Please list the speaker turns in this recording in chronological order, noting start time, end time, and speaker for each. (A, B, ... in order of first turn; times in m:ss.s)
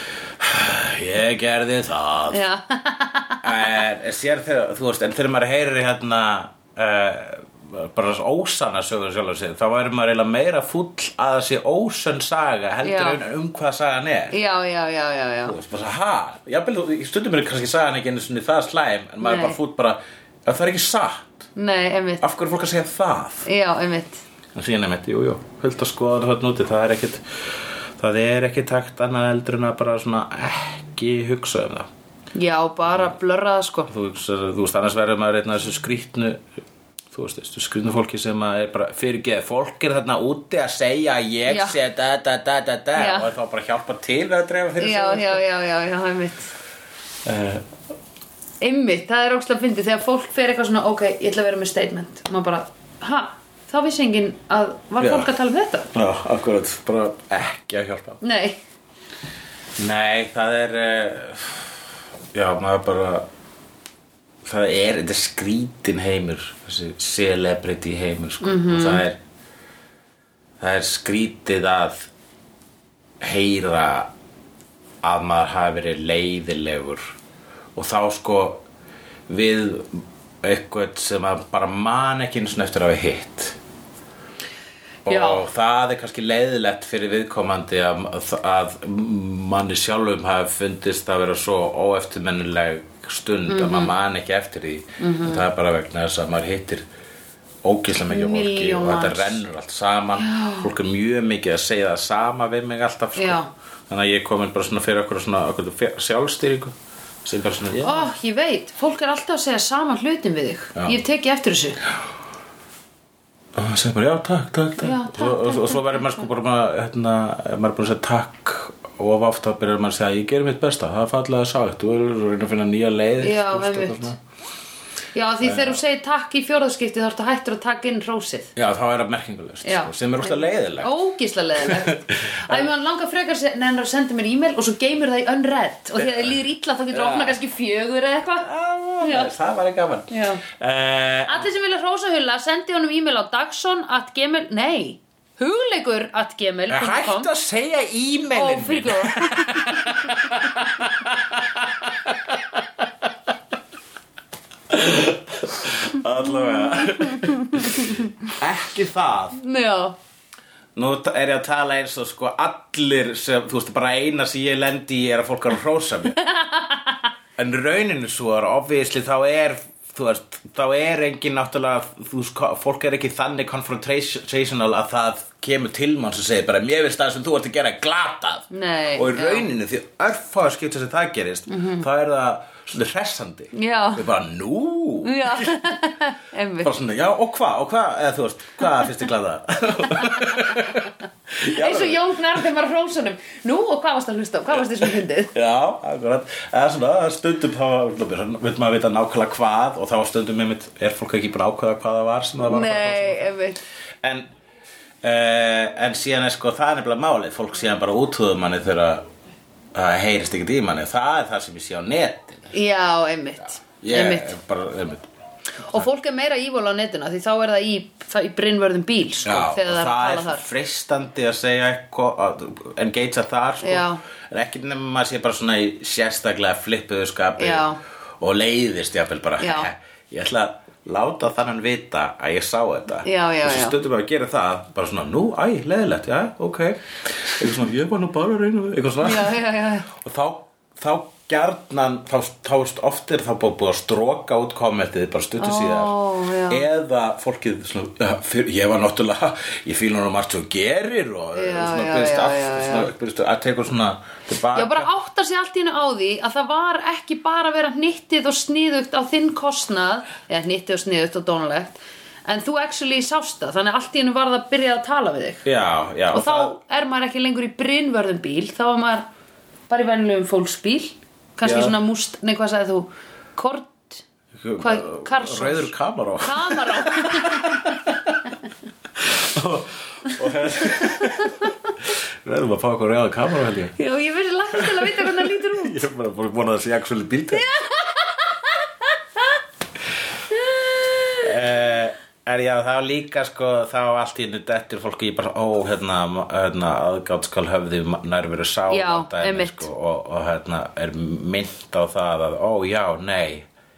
0:00.4-0:02.4 A
0:02.3-0:03.7 B
0:03.4-0:14.4 A
0:12.8-0:13.2 B
0:14.3-0:15.6 B
0:15.4-0:21.5 A
0:19.2-0:19.6 B
0:21.6-0:22.2 B
0:22.2-0:23.5 A
0:23.4-0:24.2 B
0:24.5-0:31.9 A
0:32.4-0:33.9 B
0:33.9-0:36.4 A
0:37.1-0:45.4 A
0:41.5-0:41.8 B
0:43.0-0:43.3 B
0:44.8-0:46.5 B
0:47.2-0:47.7 A
0:48.6-0:55.9 B
0:55.0-0:55.3 A
0:55.9-0:58.2 A
0:58.2-0:58.6 B
0:59.8-1:01.8 A
1:02.3-1:03.3 A
1:04.4-1:09.2 A
1:08.4-1:09.0 B
1:10.6-1:12.1 A
1:13.2-1:14.1 A
1:15.0-1:17.0 A
1:17.8-1:18.6 A
1:19.3-1:23.6 A
1:25.1-1:36.9 A
1:25.1-1:25.4 B
1:33.5-1:33.9 B
1:35.0-1:35.4 B
1:37.6-1:48.1 A
1:38.1-1:39.4 B
1:40.2-1:40.7 B
1:43.2-1:43.5 B
1:47.8-1:51.8 B
1:53.6-2:04.2 A
1:54.8-1:56.3 B
2:03.2-2:04.1 B
2:05.2-2:08.5 B
2:05.4-2:05.8 A
2:08.6-2:10.9 A
2:09.6-2:18.5 B
2:11.6-2:12.7 A
2:16.0-2:16.3 A
2:16.9-2:17.4 A
2:18.4-2:21.5 A
2:19.0-2:19.3 B
2:20.1-2:20.4 B
2:21.3-2:27.3 B
2:26.7-2:32.9 A
2:28.3-2:30.3 B
2:34.7-2:39.4 A
2:36.7-2:38.0 B
2:39.4-2:40.0 B
2:40.8-2:46.2 A
2:46.2-2:47.0 B
2:47.4-3:05.6 A
2:58.5-2:59.5 B
3:01.5-3:01.8 B
3:03.5-3:04.1 B
3:05.0-3:06.7 B
3:06.6-3:12.1 A
3:10.0-3:10.6 B
3:11.4-3:15.3 B
3:14.6-3:23.3 A
3:22.4-3:23.6 B
3:24.0-3:24.3 A
3:25.0-3:29.0 A
3:29.7-3:32.6 A
3:32.5-3:34.3 B
3:33.8-3:35.1 A
3:35.7-3:40.5 B
3:39.2-4:06.0 A
3:43.6-3:44.0 B
3:47.4-3:47.8 B
3:49.4-3:49.7 B
3:53.0-3:53.8 B
3:59.0-3:59.9 B
4:05.4-4:06.6 B
4:06.5-4:14.9 A
4:11.3-4:12.9 B
4:14.5-4:25.4 B
4:25.4-4:26.5 A
4:26.1-4:29.1 B
4:29.7-4:34.0 B
4:31.4-4:31.8 A
4:34.4-4:38.2 A
4:34.6-4:37.7 B
4:39.0-4:43.8 A
4:40.6-4:41.7 B
4:43.8-4:45.9 B
4:44.5-4:47.5 A
4:47.3-4:49.3 B
4:50.3-4:51.3 B
4:51.2-5:03.5 A
4:58.7-4:59.7 B